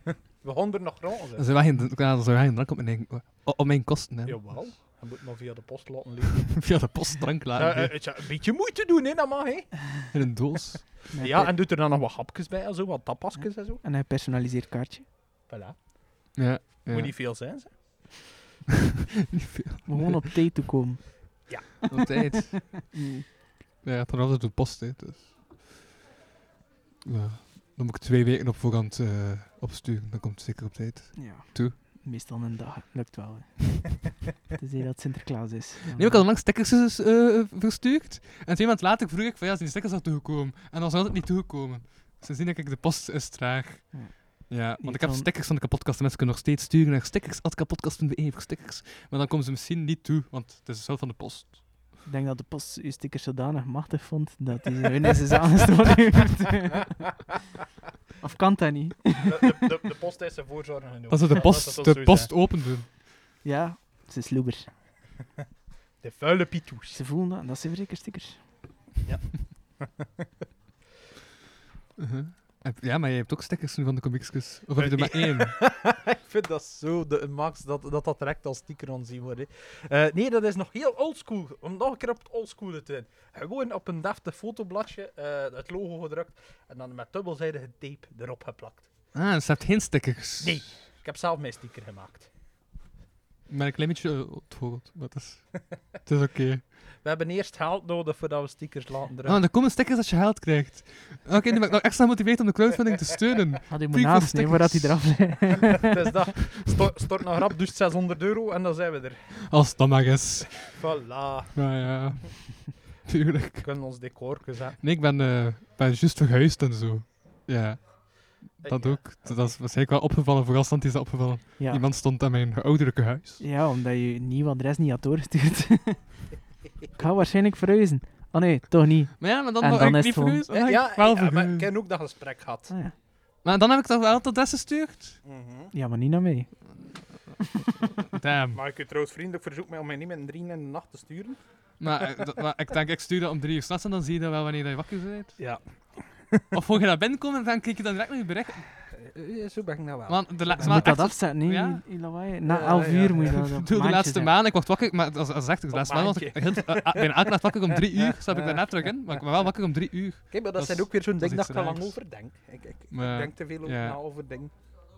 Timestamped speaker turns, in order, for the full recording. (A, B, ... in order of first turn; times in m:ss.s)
0:00.4-0:01.5 A
0:01.4-0:04.7 B
0:04.3-0:07.0 A
0:06.5-0:08.0 B
0:07.6-0:10.3 A
0:10.1-0:11.0 B
0:11.1-0:11.6 C
0:11.2-0:13.8 A
0:13.3-0:15.1 C
0:15.5-0:18.3 A
0:16.4-0:17.2 B
0:19.3-0:20.3 B
0:19.8-0:21.7 C
0:21.5-0:21.9 A
0:21.9-0:23.0 B
0:22.5-0:23.2 C
0:23.8-0:25.4 B
0:27.0-0:31.8 B
0:31.2-0:36.2 C
0:35.9-0:51.8 B
0:43.9-0:45.3 C
0:52.0-0:57.1 C
0:58.2-0:59.7 C
0:59.2-1:02.4 A
1:01.1-1:02.9 B
1:03.4-1:04.7 C
1:06.0-1:07.0 A
1:06.9-1:08.5 C
1:09.0-1:09.9 A
1:12.0-1:15.6 B
1:14.8-1:28.9 A
1:29.1-1:30.6 B
1:30.4-1:32.3 A
1:33.5-1:36.7 B
1:37.0-1:39.4 A
1:39.2-1:45.5 B
1:43.7-1:46.0 C
1:45.8-1:49.7 A
1:49.5-1:50.8 B
1:50.6-1:52.1 A
1:51.5-1:53.7 B
1:53.6-1:54.9 A
1:54.8-2:03.4 B
1:58.6-1:59.6 A
2:01.6-2:01.9 C
2:03.4-2:06.3 C
2:07.0-2:10.4 C
2:09.2-2:11.7 B
2:10.5-2:12.8 A
2:12.7-2:13.0 C
2:13.4-2:15.2 B
2:15.2-2:15.7 A
2:15.7-2:16.8 C
2:18.1-2:18.6 B
2:18.5-2:21.4 A
2:21.8-2:25.4 B
2:25.4-2:26.4 A
2:26.5-2:28.7 B
2:28.9-2:30.9 A
2:30.1-2:31.8 B
2:30.6-2:34.3 C
2:32.5-2:33.4 A
2:33.4-2:42.0 B
2:35.7-2:38.8 A
2:40.3-2:44.5 A
2:42.9-2:44.0 B